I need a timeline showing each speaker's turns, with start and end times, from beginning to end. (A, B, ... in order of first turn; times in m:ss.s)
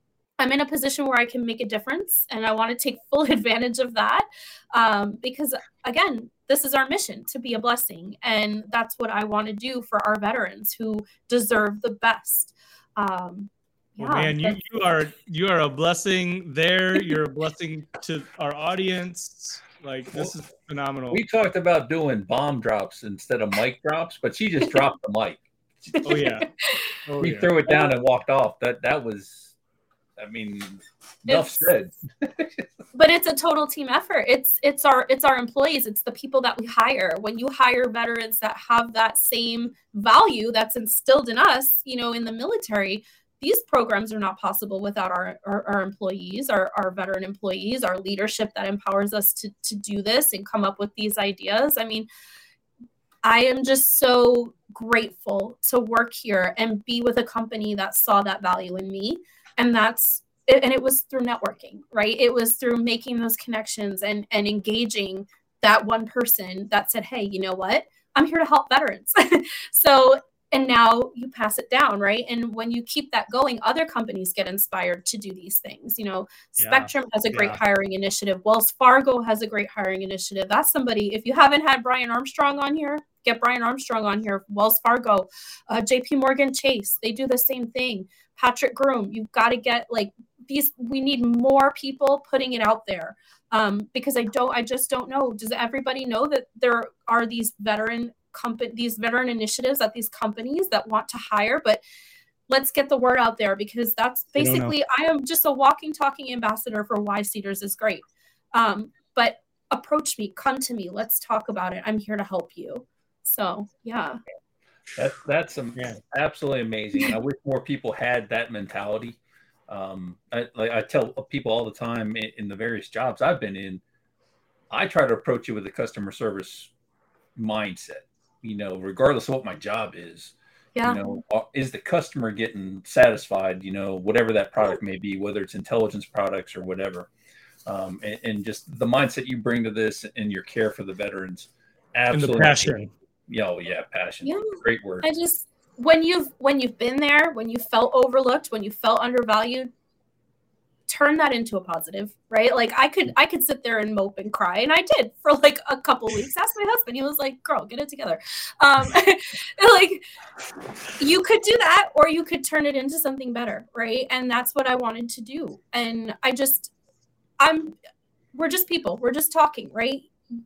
0:00.4-0:14.6 A
0:14.0-0:21.2 B
0:21.1-0:25.9 C
0:25.9-0:26.8 A
0:26.0-0:26.5 B
0:27.1-0:27.5 B
0:27.2-0:29.6 C
0:30.2-0:32.6 C
0:31.3-0:31.7 A
0:32.9-0:52.1 A
0:53.2-1:41.8 A
1:16.6-1:17.6 B
1:42.5-1:54.2 A
1:44.4-1:44.7 B
1:55.0-2:03.8 C
2:04.7-2:06.7 C
2:07.4-2:17.1 C
2:10.8-2:11.0 A
2:17.7-2:22.8 C
2:22.1-2:22.9 B
2:23.3-2:25.1 C
2:24.2-2:29.7 A
2:30.9-2:40.0 A
2:41.0-2:46.7 A
2:47.4-2:47.8 A
2:48.3-2:50.1 A